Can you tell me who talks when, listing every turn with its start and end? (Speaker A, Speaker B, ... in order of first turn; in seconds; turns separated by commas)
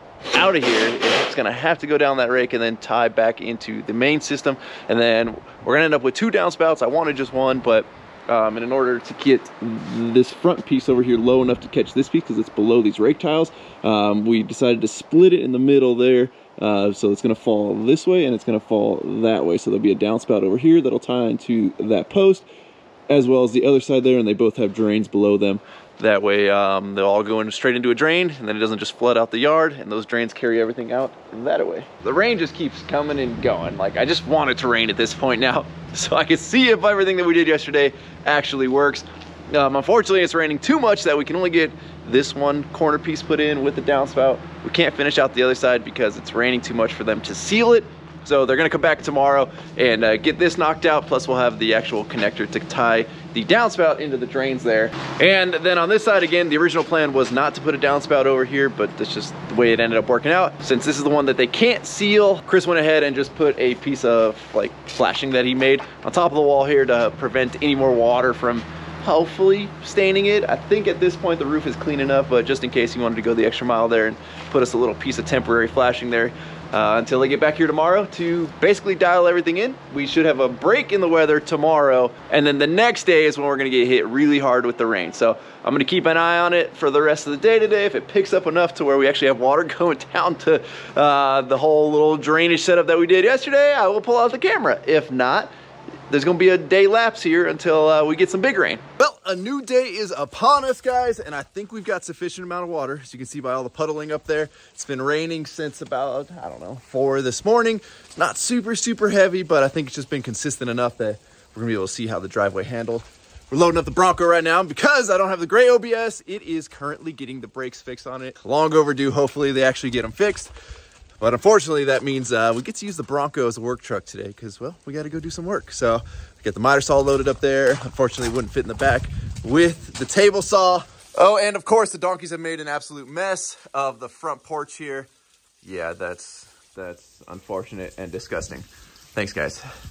Speaker A: 0.3-22.5, Speaker A: 23.1-95.5, Speaker A: 96.1-120.5, Speaker A: 121.2-135.1, Speaker A: 135.6-139.6